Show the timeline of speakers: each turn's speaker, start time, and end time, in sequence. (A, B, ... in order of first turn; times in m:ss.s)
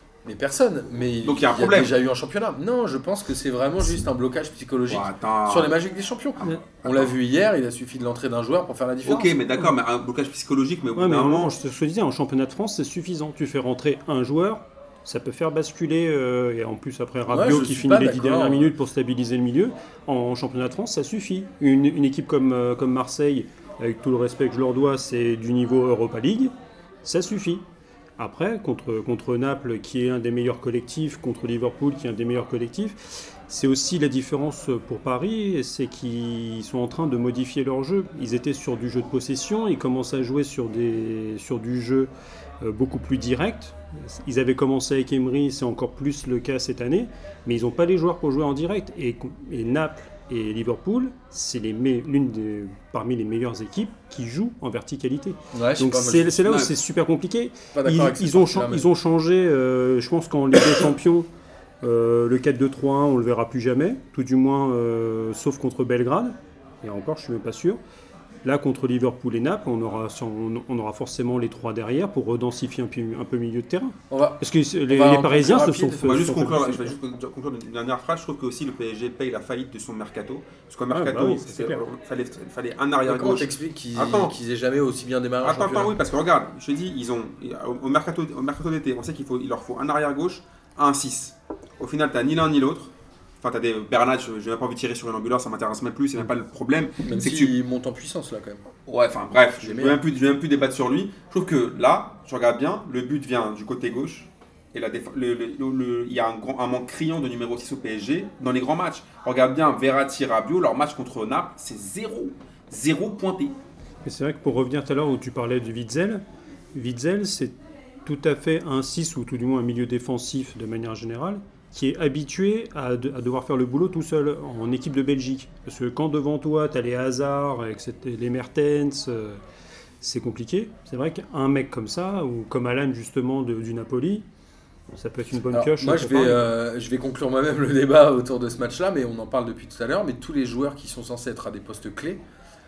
0:00.2-0:09.3 A
0:01.2-0:02.0 B
0:04.9-0:05.8 B
0:06.4-0:07.2 B
0:09.0-0:11.5 B
0:11.0-0:26.5 C
0:17.3-0:18.7 A
0:27.0-0:27.6 C
0:28.2-0:42.1 C
0:42.6-1:01.3 C
0:55.5-0:56.5 A
0:56.4-0:56.7 B
0:57.7-0:58.8 A
1:01.8-1:07.8 C
1:08.4-1:16.8 C
1:14.1-1:16.3 A
1:16.0-1:24.4 B
1:20.9-1:21.8 C
1:23.1-1:26.0 A
1:25.4-1:37.6 B
1:37.0-1:38.6 A
1:38.9-1:53.6 B
1:39.6-1:40.0 A
1:54.0-1:56.2 C
1:56.7-1:57.5 C
1:58.0-2:09.4 C
2:10.0-2:14.2 C
2:14.9-2:16.5 C
2:15.5-2:22.2 A